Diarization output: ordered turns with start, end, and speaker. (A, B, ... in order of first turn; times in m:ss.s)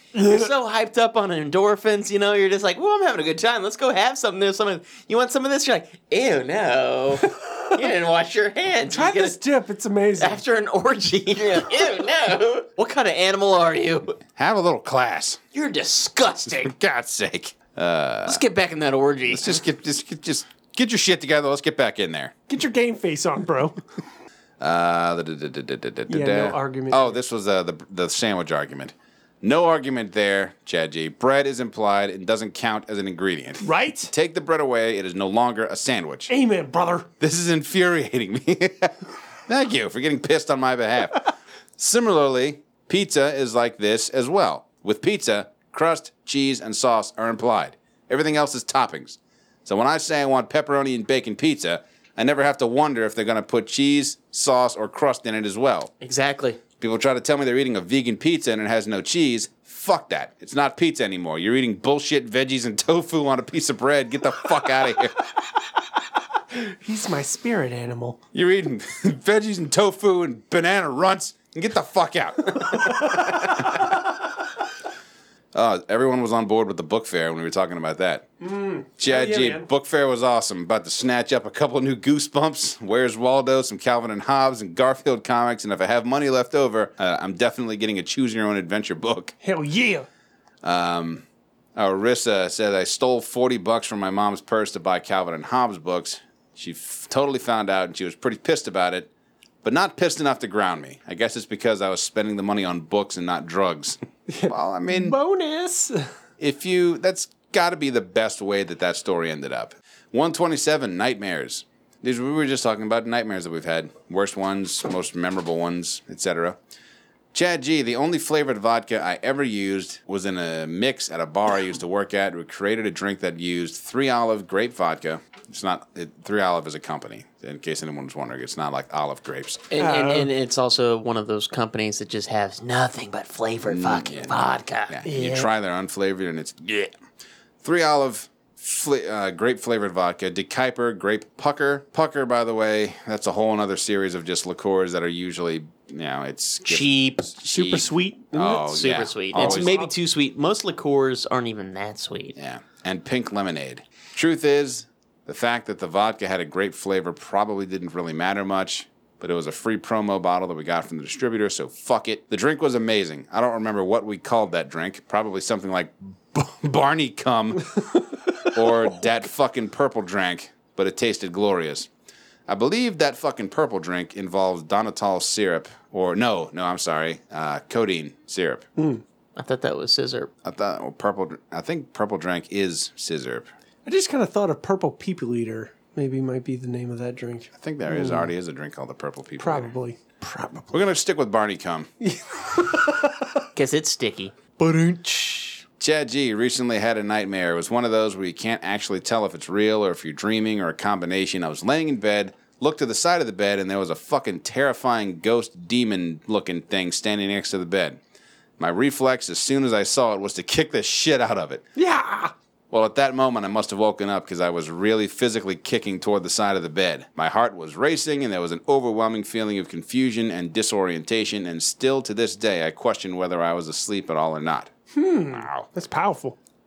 0:00.2-0:00.5 A
0:00.2-0:09.4 B
0:07.4-0:07.7 A
0:08.9-0:10.4 A
0:10.2-0:14.2 B
0:14.4-0:15.4 C
0:15.5-0:16.7 B
0:16.5-0:18.4 C
0:18.3-0:19.6 B
0:19.3-0:22.3 C
0:22.5-0:23.8 A
0:24.6-0:36.3 C
0:26.1-0:27.2 A
0:33.6-0:34.1 A
0:36.3-0:37.1 A
0:37.2-0:55.9 C
0:56.0-0:56.6 B
0:56.8-1:05.2 C
1:06.5-1:08.2 A
1:08.3-1:13.8 C
1:12.6-1:13.9 A
1:15.5-1:18.3 C
1:18.4-1:19.7 A
1:19.0-1:29.3 C
1:29.4-1:30.1 A
1:30.6-1:31.2 C
1:31.8-1:39.1 C
1:39.6-1:45.2 C
1:44.3-1:46.0 A
1:46.4-1:56.6 C
1:57.3-2:09.7 C
2:09.7-2:15.4 B
2:09.8-2:10.3 A
2:13.7-2:14.4 C
2:14.9-2:16.9 C
2:15.1-2:15.4 A
2:17.6-2:29.8 C
2:26.7-2:27.4 B
2:27.4-2:28.7 A
2:28.6-2:32.4 B
2:29.3-2:29.9 A
2:32.4-2:51.9 C
2:52.5-2:58.6 C
2:58.8-2:59.0 A
2:59.4-3:00.3 B
3:00.4-3:03.5 C
3:03.9-3:08.3 A
3:07.6-3:09.8 C
3:09.4-3:10.8 A
3:10.7-3:11.9 C
3:12.0-3:13.3 A
3:13.6-3:14.6 B
3:14.6-3:15.6 A
3:15.8-3:28.0 C
3:28.6-3:31.6 C
3:31.8-3:32.3 A
3:32.7-3:44.7 C
3:44.9-3:46.4 A
3:45.3-3:45.7 C